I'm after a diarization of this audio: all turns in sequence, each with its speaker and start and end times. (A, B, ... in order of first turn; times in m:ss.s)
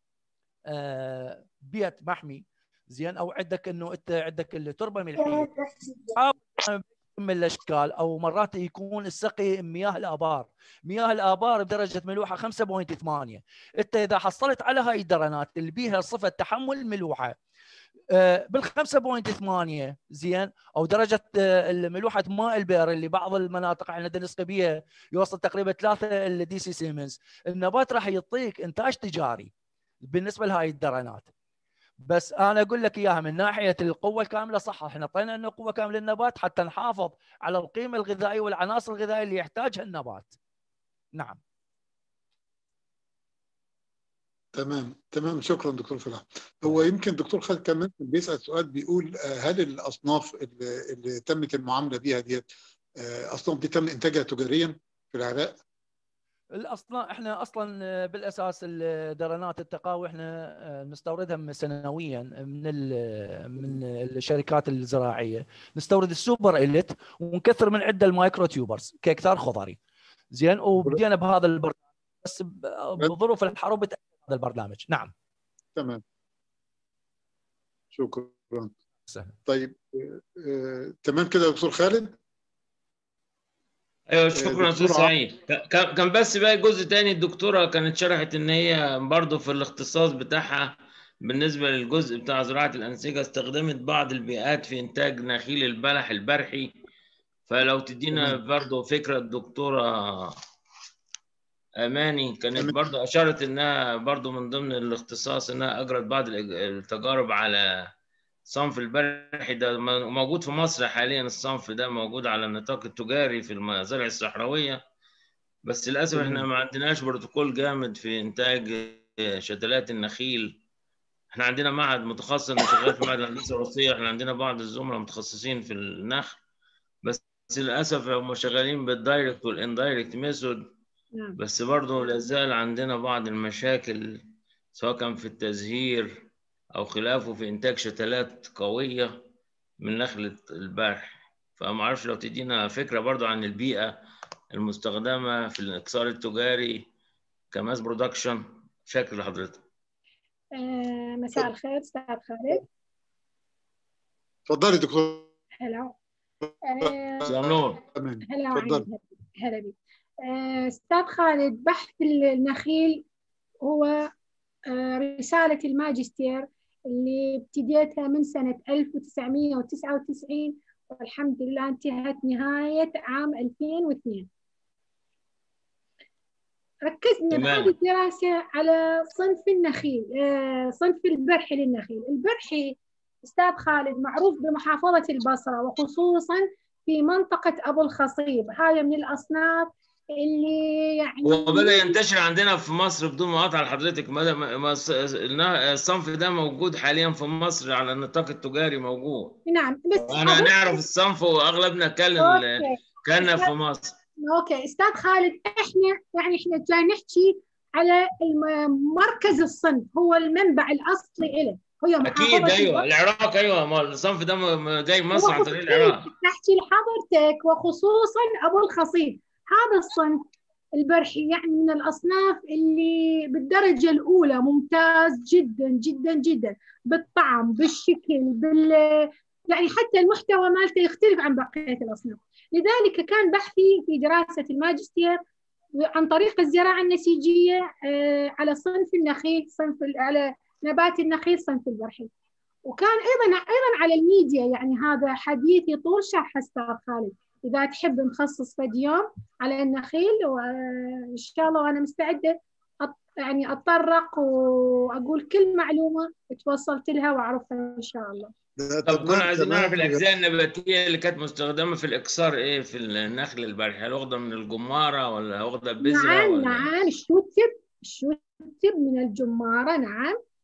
0:00.7-0:05.5 A
0:05.2-0:06.1 B
0:06.2-0:17.4 A
0:18.1-0:29.5 A
0:30.0-0:31.3 A
0:32.1-0:40.4 A
0:44.6-0:55.6 C
0:56.6-1:09.8 A
1:10.3-1:15.1 A
1:15.8-1:16.0 C
1:17.9-1:18.7 C
1:19.1-1:19.4 A
1:19.5-1:22.2 C
1:24.1-1:36.7 D
1:24.4-1:25.1 C
1:37.5-1:40.4 D
1:38.1-1:38.4 C
1:41.8-1:47.8 D
1:48.5-1:54.8 D
1:55.7-2:00.5 D
2:01.3-2:06.4 D
2:07.0-2:10.6 D
2:11.4-2:14.2 D
2:12.0-2:12.3 B
2:14.7-2:16.1 D
2:16.8-2:19.1 D
2:19.8-2:23.9 D
2:24.5-2:26.9 D
2:27.5-2:29.6 D
2:30.6-2:32.6 B
2:34.5-2:35.3 C
2:35.6-2:35.9 B
2:36.6-2:37.3 B
2:36.8-2:37.3 C
2:37.2-2:37.8 D
2:37.8-2:38.9 C
2:38.3-2:43.0 B
2:43.6-2:44.1 B
2:44.7-2:54.3 B
2:56.8-3:12.0 B
2:57.3-2:57.7 D
3:11.2-3:19.4 D
3:19.5-3:20.8 B
3:20.1-3:24.0 D
3:22.2-3:23.5 B
3:24.2-3:32.8 B
3:32.0-3:36.1 D
3:35.1-3:40.2 B
3:40.8-3:55.2 B
3:55.8-4:02.1 B
4:02.6-4:18.3 B
4:18.6-4:20.0 C
4:18.9-4:26.7 D
4:25.8-4:30.2 B